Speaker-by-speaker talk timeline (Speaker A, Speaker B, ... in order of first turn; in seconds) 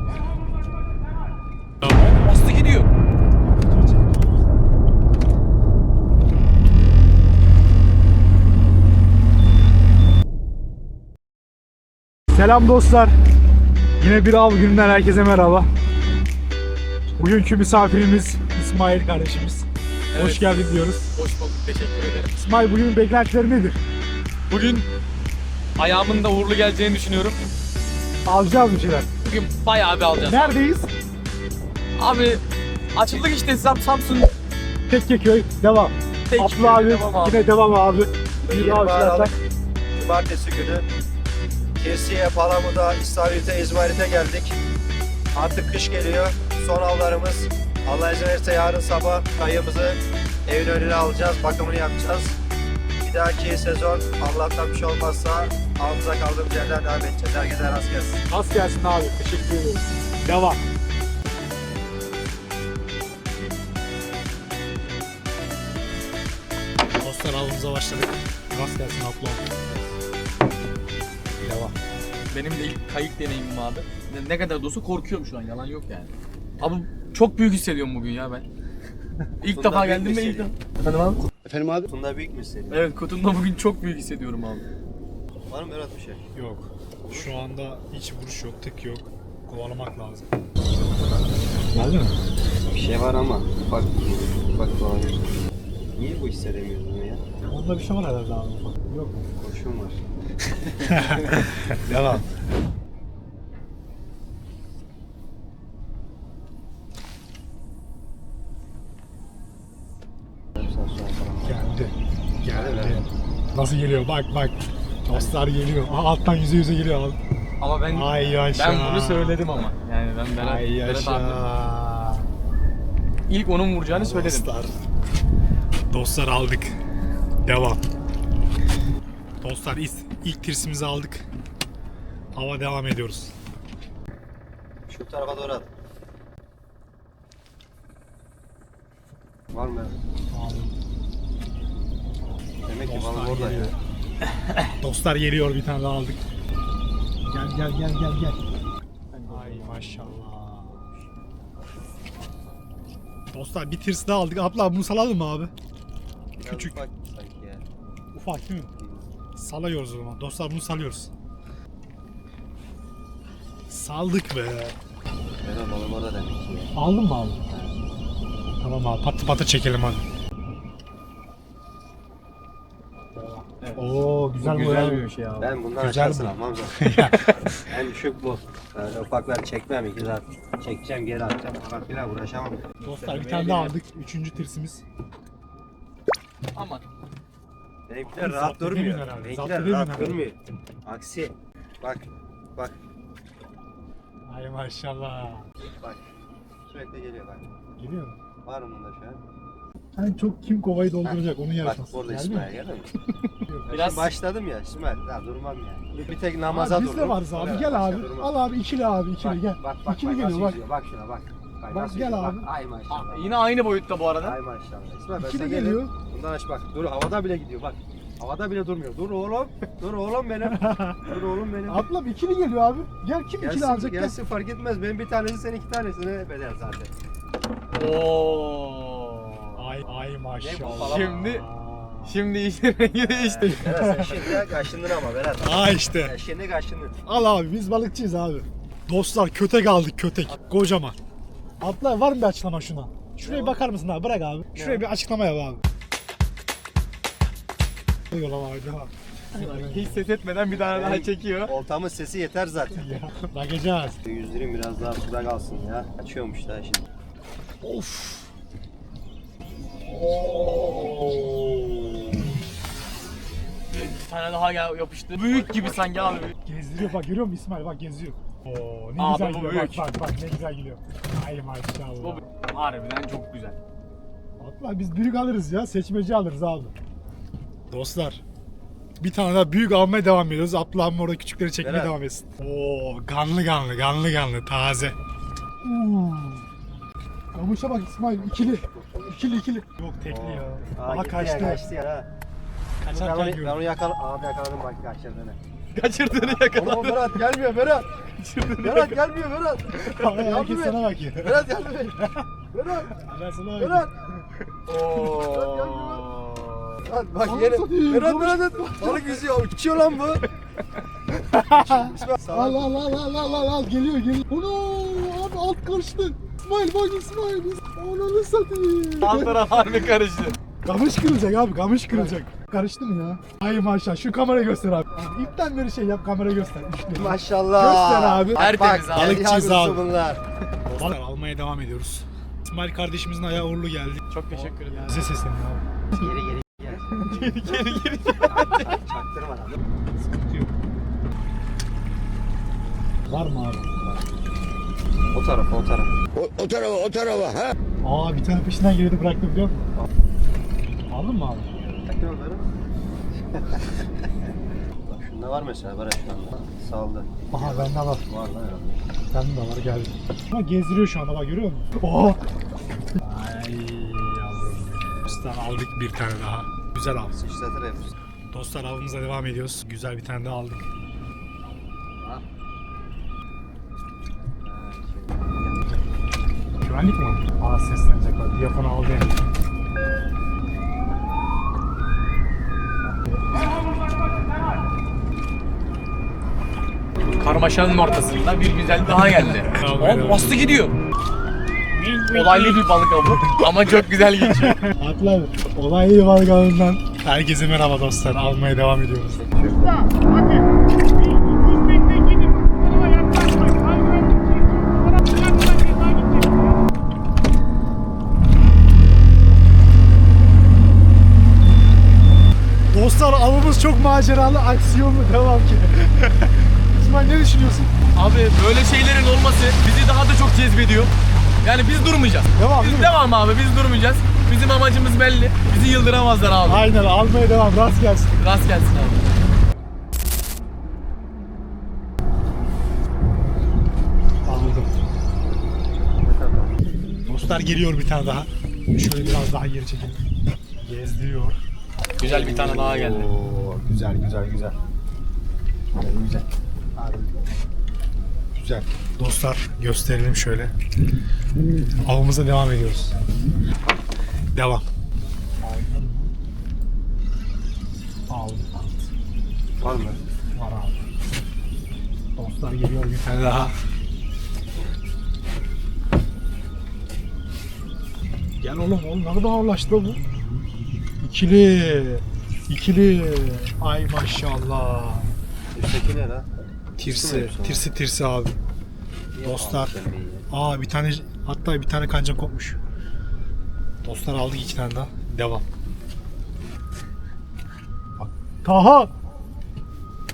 Speaker A: 1.9-2.9, 20.1-20.5, 21.1-22.3, 24.5-24.9, 25.8-27.4, 29.2-30.6, 32.0-32.4, 32.9-34.3, 36.3-37.4, 72.3-78.4, 79.4-80.5, 82.7-84.6, 117.6-121.4, 123.3-124.5, 149.1-150.1, 173.6-175.6, 182.8-183.8, 186.5-186.8, 203.7-204.1, 212.9-214.4, 227.7-229.6, 230.8-231.4, 232.0-233.7, 249.3-251.5, 260.2-261.2, 263.9-266.4, 269.0-269.9, 272.0-273.6, 295.7-297.2, 298.0-299.0, 304.7-306.8, 319.0-320.4, 328.3-329.2, 334.1-335.1, 337.1-338.8, 387.1-390.7, 392.0-394.6, 417.9-426.6, 428.2-429.0, 442.0-443.1
Speaker B: 3.4-4.6, 12.3-13.1, 14.0-15.7, 17.2-21.1, 22.4-23.8, 28.2-29.1, 30.2-30.9, 34.9-39.3, 58.3-60.6, 67.0-69.5, 71.4-71.7, 86.3-90.2, 91.7-92.2, 97.5-99.3, 100.8-102.3, 111.4-117.2, 117.9-119.4, 120.4-122.3, 123.9-124.7, 125.9-126.8, 127.5-127.8, 129.4-131.2, 132.3-133.3, 140.3-140.7, 142.8-143.7, 144.8-146.2, 147.3-148.4, 149.3-150.8, 153.3-155.5, 156.4-156.8, 158.1-158.7, 159.3-161.1, 163.7-164.8, 166.7-167.4, 168.6-170.1, 173.1-175.1, 175.8-177.7, 182.8-184.8, 188.1-190.3, 194.3-195.5, 197.8-198.2, 199.9-202.5, 203.4-203.7, 206.5-210.6, 211.7-212.5, 215.2-215.9, 220.4-221.1, 221.7-224.2, 229.6-232.3, 233.4-234.4, 235.4-236.1, 237.1-240.9, 241.6-245.6, 248.1-250.0, 252.7-254.0, 257.6-258.3, 260.8-261.1, 266.4-272.2, 274.4-276.7, 277.7-278.2, 279.0-285.0, 285.6-286.4, 287.3-291.7, 292.8-293.6, 299.8-302.2, 302.9-304.4, 307.2-309.1, 311.2-319.9, 320.6-329.8, 330.6-335.6, 339.9-340.5, 343.1-343.7, 347.8-349.6, 350.9-351.5, 357.3-358.0, 359.1-362.2, 363.0-367.1, 368.3-370.6, 376.6-379.3, 389.4-390.3, 391.8-393.7, 394.3-399.2, 401.1-406.6, 412.7-417.7, 422.4-422.9, 426.4-428.1, 434.2-434.7, 437.0-440.0, 440.6-441.4, 443.2-444.5, 446.8-447.2, 448.3-450.5, 451.8-453.0, 454.3-454.6, 455.4-456.1, 458.1-458.9, 460.3-460.8, 462.1-463.6, 468.4-470.0, 471.0-475.1, 476.8-478.4, 479.2-479.7, 480.3-482.6, 483.8-485.4, 488.0-488.9
Speaker C: 38.5-39.3, 39.9-40.8, 41.8-44.5, 45.3-52.4, 53.0-58.2, 69.7-69.9, 79.5-82.9, 85.5-86.2, 92.7-95.2, 95.9-97.2, 99.3-100.0, 110.5-111.7, 112.5-113.1, 115.1-115.4, 134.9-135.7, 139.5-140.0, 142.7-143.7, 150.7-151.1, 156.4-157.6, 158.7-159.1, 165.4-166.7, 167.5-167.8, 175.4-176.8, 177.7-182.7, 187.9-192.8, 196.7-197.5, 198.4-199.2, 201.0-202.9, 203.7-208.3, 209.2-213.5, 214.2-221.9, 223.4-226.9, 230.4-231.4, 233.0-236.9, 243.2-243.6, 244.5-244.8, 250.5-252.9, 254.0-256.9, 265.2-266.1, 281.6-281.9, 288.1-289.4, 290.1-292.1, 292.9-295.4, 296.1-297.9, 298.5-302.9, 303.6-303.9, 304.7-306.1, 306.8-310.2, 311.5-312.8, 327.0-330.2, 335.9-339.6, 345.1-345.9, 351.6-352.5, 353.2-354.1, 354.9-358.8, 365.0-365.4, 367.1-367.9, 372.0-372.2, 374.4-375.6, 399.1-399.9, 436.0-436.5, 442.0-443.5, 459.6-460.0, 475.5-476.3, 476.9-477.6, 479.1-480.3